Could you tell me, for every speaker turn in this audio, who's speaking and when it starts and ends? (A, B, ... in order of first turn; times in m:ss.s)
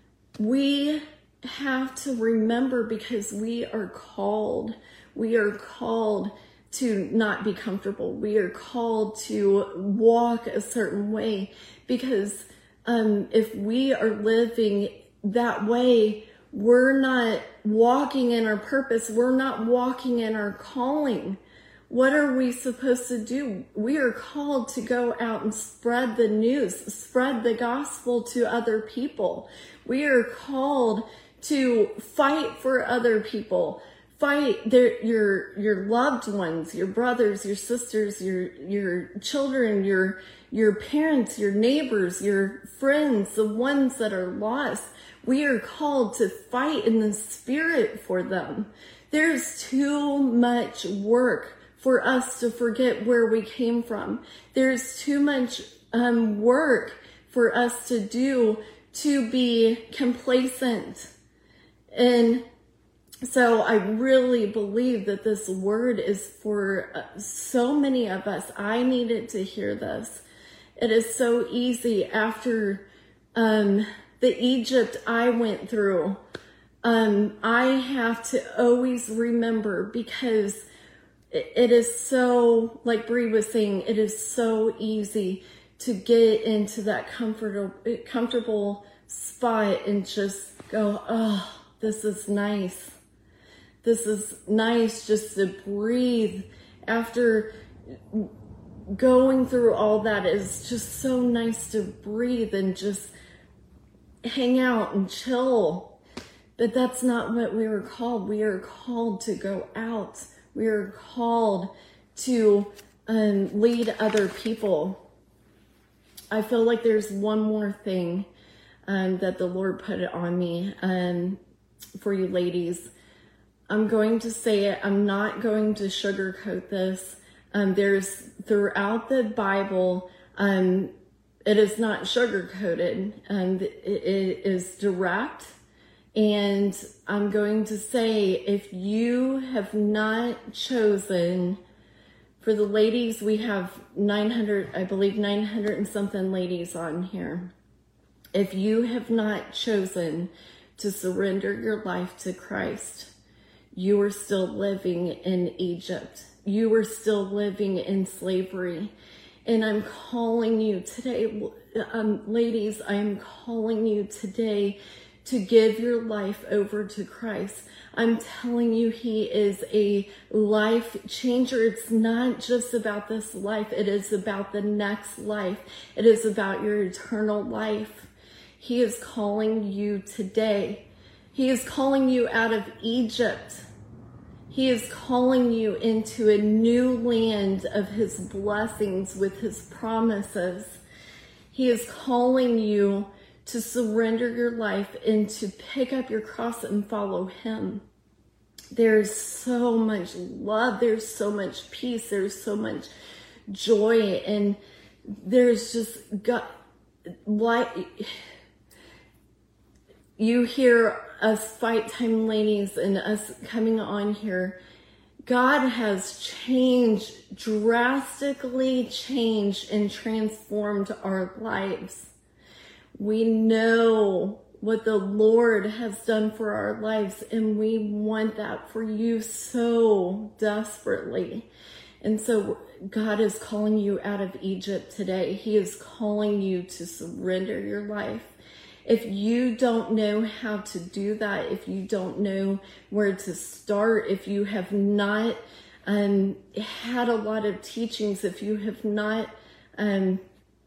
0:00.4-1:01.1 A
1:01.9-1:02.4 A
1:03.2-1:10.2 A
1:10.8-1:16.2 A
1:16.8-1:20.6 A
1:21.3-1:33.0 A
1:33.8-1:37.5 A
1:38.9-1:43.1 A
1:44.2-1:46.0 A
1:46.6-1:55.0 A
1:56.3-1:58.3 A
1:58.9-2:01.4 A
2:02.0-2:02.9 A
2:03.7-2:10.9 A
2:11.5-2:15.6 A
2:16.2-2:21.6 A
2:22.4-2:27.5 A
2:28.3-2:33.1 A
2:33.7-2:38.9 A
2:39.5-3:03.6 A
3:04.5-3:10.8 A
3:11.5-3:17.8 A
3:18.7-3:22.9 A
3:23.5-3:24.6 A
3:25.2-3:26.5 A
3:27.3-3:28.1 A
3:30.2-3:34.6 A
3:35.3-3:42.1 A
3:43.0-3:51.5 A
3:52.0-3:58.4 A
3:58.9-4:10.2 A